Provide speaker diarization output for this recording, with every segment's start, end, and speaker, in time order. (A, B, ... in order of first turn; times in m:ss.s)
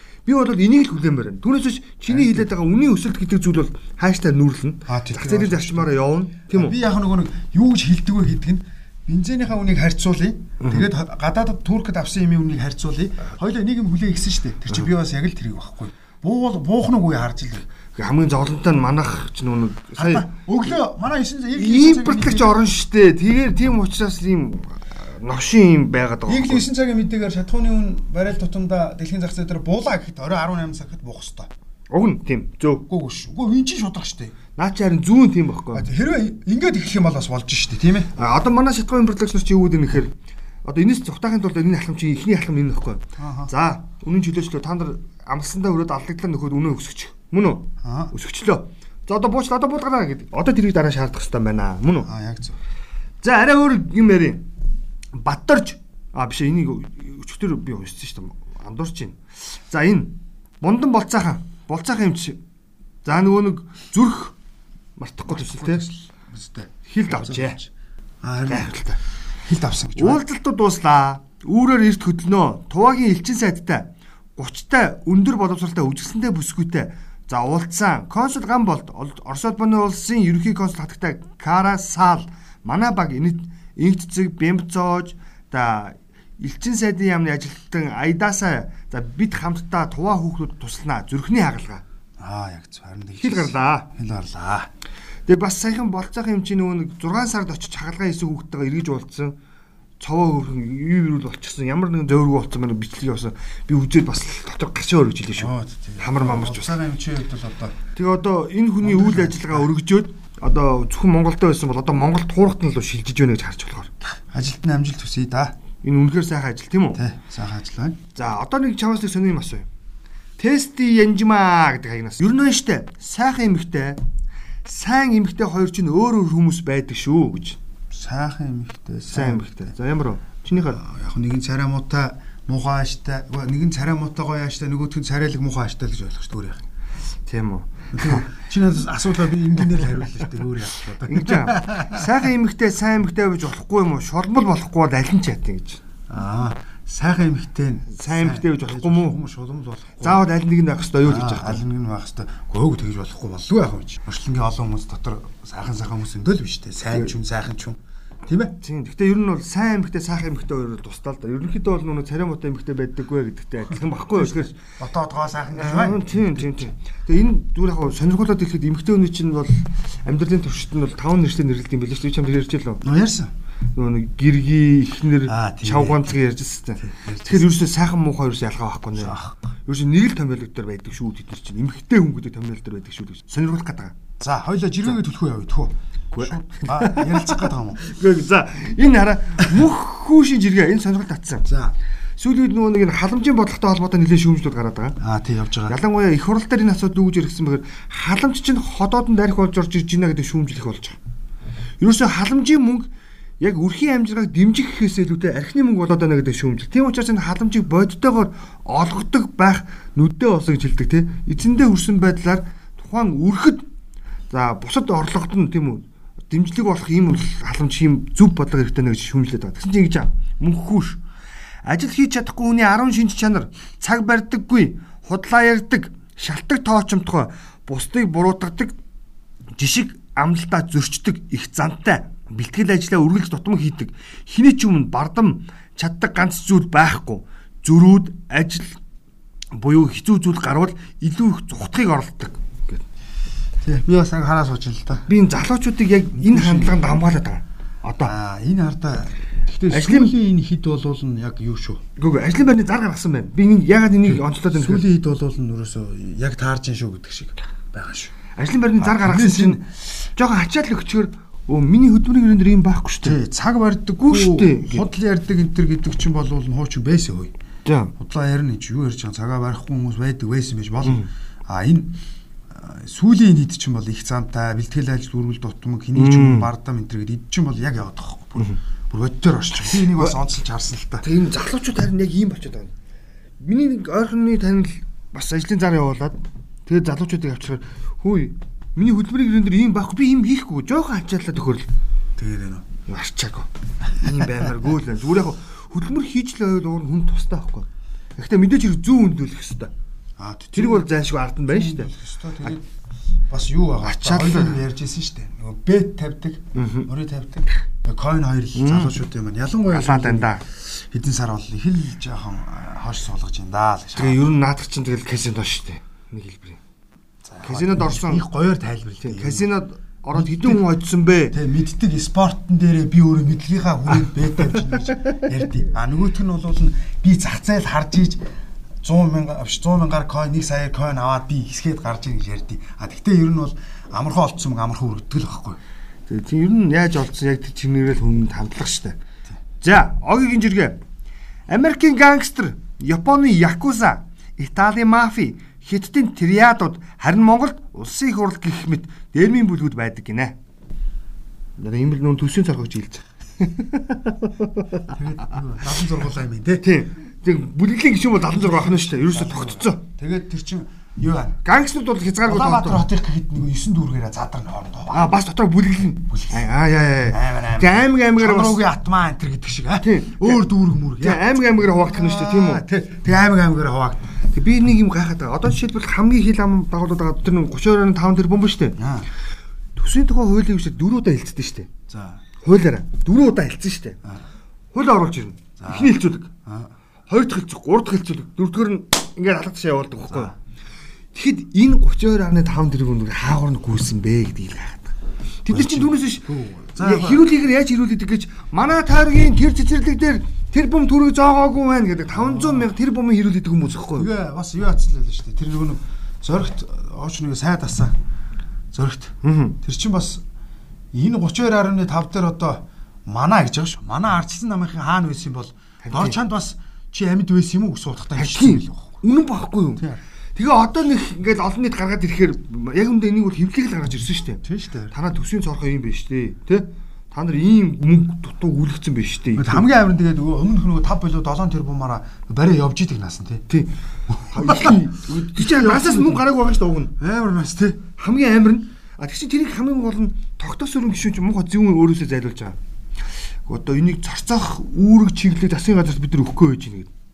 0:00.2-0:06.8 A
0:02.1-0:02.5 B
0:04.9-0:06.0 B
0:06.5-0:17.7 B
0:10.6-0:10.9 A
0:17.9-0:20.3 A
0:20.0-0:22.5 B
0:21.6-0:26.7 A
0:26.2-0:31.5 B
0:31.9-0:32.8 A
0:32.9-0:34.3 B
0:34.6-0:35.8 A
0:35.7-0:38.1 B
0:38.1-0:40.1 A
0:40.6-0:52.1 A
0:43.2-0:43.5 B
0:47.8-0:48.1 B
0:52.0-0:52.6 B
0:53.2-0:54.5 A
0:55.2-1:02.4 A
1:03.0-1:04.4 A
1:05.0-1:05.8 A
1:05.3-1:07.7 B
1:06.8-1:07.6 A
1:08.2-1:08.7 B
1:08.5-1:09.0 A
1:09.4-1:10.2 B
1:10.0-1:31.8 A
1:32.2-1:34.7 B
1:33.2-1:33.9 A
1:35.3-1:39.4 A
1:40.0-1:46.8 A
1:45.4-1:47.8 B
1:48.0-1:53.9 A
1:48.8-1:49.7 B
1:54.0-1:55.6 B
1:55.8-1:57.0 A
1:56.9-1:58.0 B
1:58.1-1:59.6 A
2:00.4-2:04.0 A
2:04.6-2:07.6 A
2:07.9-2:09.7 B
2:09.1-2:10.8 A
2:10.5-2:16.6 B
2:17.3-2:18.3 A
2:17.9-2:22.1 B
2:21.0-2:25.8 A
2:26.1-2:30.2 B
2:27.9-2:29.2 A
2:30.0-2:31.6 A
2:31.0-2:38.6 B
2:38.6-2:44.6 A
2:44.1-2:46.7 B
2:45.5-2:52.8 A
2:52.8-2:53.3 B
2:53.8-3:04.0 A
2:55.2-2:56.1 B
2:56.8-2:57.5 B
2:59.0-2:59.3 B
3:04.2-3:07.8 B
3:06.1-3:11.5 A
3:11.4-3:11.7 B
3:12.2-3:15.0 A
3:15.0-3:15.8 B
3:15.7-3:21.0 A
3:21.8-3:22.9 A
3:23.4-3:33.6 A
3:34.3-3:41.0 A
3:41.6-3:48.7 A
3:49.6-3:58.8 A
3:59.5-4:02.8 A
4:03.6-4:05.1 B
4:05.1-4:08.1 A
4:06.2-4:06.9 B
4:08.0-4:11.8 B
4:09.7-4:10.1 A
4:12.0-4:14.8 A
4:14.0-4:18.1 B
4:18.4-4:23.2 A
4:18.8-4:19.7 B
4:23.0-4:27.3 B
4:24.0-4:24.8 A
4:27.6-4:27.9 A
4:28.0-4:32.0 B
4:32.5-4:41.0 B
4:35.9-4:36.5 A
4:39.5-4:40.1 A
4:41.0-4:42.7 A
4:43.4-4:51.7 A
4:52.2-4:52.6 B
4:52.9-4:59.7 A
5:00.2-5:00.9 B
5:00.5-5:01.9 A
5:01.5-5:02.6 B
5:03.3-5:14.2 B
5:03.8-5:04.6 A
5:06.5-5:06.9 A
5:08.5-5:08.9 A
5:09.7-5:10.4 A
5:14.0-5:16.6 A
5:17.2-5:19.5 B
5:17.4-5:18.2 A
5:19.0-5:21.4 A
5:20.1-5:20.6 B
5:21.3-5:28.2 B
5:24.5-5:25.2 A
5:28.8-5:35.6 B
5:36.1-5:39.0 A
5:39.6-5:40.8 A
5:41.5-5:50.4 A
5:51.6-5:54.9 A
5:54.9-5:56.6 B
5:56.6-5:59.8 A
5:58.3-6:01.4 B
6:01.4-6:02.8 A
6:02.2-6:05.2 B
6:04.9-6:08.6 A
6:06.1-6:06.4 B
6:07.1-6:14.2 B
6:09.8-6:10.4 A
6:11.0-6:12.6 A
6:14.3-6:18.8 A
6:18.8-6:19.1 B
6:19.8-6:21.7 A
6:21.9-6:22.2 B
6:22.4-6:24.0 A
6:24.7-6:26.3 A
6:25.6-6:26.7 B
6:27.1-6:30.3 A
6:31.1-6:34.9 A
6:35.4-6:44.1 A
6:35.5-6:37.3 B
6:42.1-6:42.7 B
6:43.9-6:47.9 B
6:48.7-6:50.2 B
6:49.2-6:49.6 A
6:50.9-6:59.0 B
6:55.8-6:56.2 A
6:58.2-7:09.7 A
6:59.8-7:00.0 B
7:04.4-7:04.9 B
7:09.3-7:13.4 B
7:14.1-7:16.2 B
7:14.2-7:16.9 A
7:17.0-7:17.8 B
7:18.0-7:22.6 A
7:23.4-7:26.9 A